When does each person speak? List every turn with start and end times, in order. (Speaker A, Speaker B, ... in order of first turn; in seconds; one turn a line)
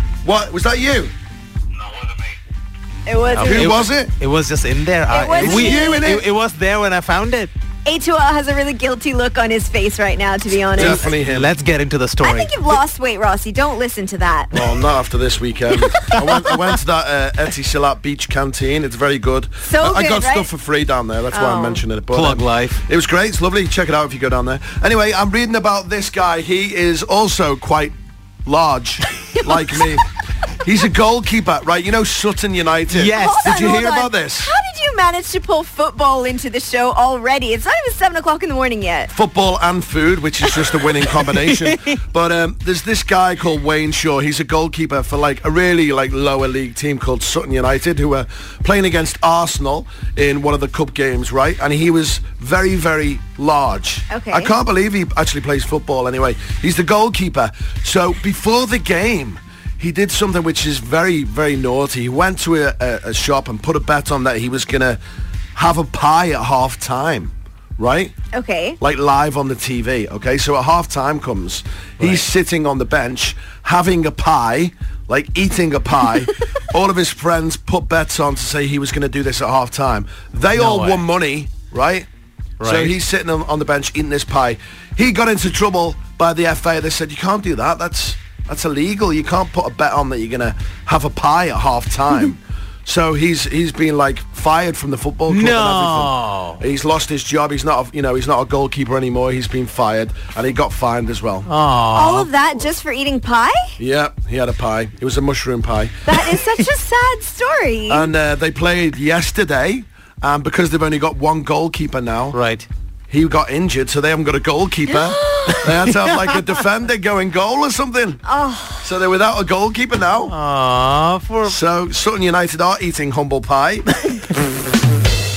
Speaker A: 0.2-1.1
Speaker B: 3.1-3.8
Speaker C: 3.3-7.5
Speaker A: 3.4-4.1
Speaker B: 5.1-6.1
Speaker A: 5.3-6.3
Speaker B: 7.9-11.1
Speaker A: 10.8-11.5
Speaker C: 10.8-12.8
Speaker B: 12.2-14.6
Speaker A: 14.5-30.0
Speaker B: 19.7-20.5
Speaker B: 21.3-21.8
Speaker C: 22.1-22.8
Speaker A: 30.6-34.5
Speaker C: 32.9-33.7
Speaker B: 33.2-39.1
Speaker A: 39.1-65.0
Speaker C: 41.5-41.8
Speaker B: 54.1-54.5
Speaker A: 65.5-68.1
Speaker B: 68.3-68.8
Speaker A: 68.8-82.1
Speaker C: 72.0-72.2
Speaker C: 80.5-81.0
Speaker C: 82.6-83.0
Speaker A: 82.6-101.5
Speaker C: 95.3-96.6
Speaker C: 101.5-102.3
Speaker B: 101.9-103.7
Speaker A: 103.8-106.0
Speaker B: 106.1-108.1
Speaker C: 106.1-106.6
Speaker A: 107.9-112.4
Speaker C: 112.3-112.7
Speaker A: 113.1-118.2
Speaker B: 114.9-115.7
Speaker C: 115.9-116.5
Speaker B: 118.3-118.9
Speaker A: 118.8-120.3
Speaker C: 120.3-121.6
Speaker A: 121.5-124.2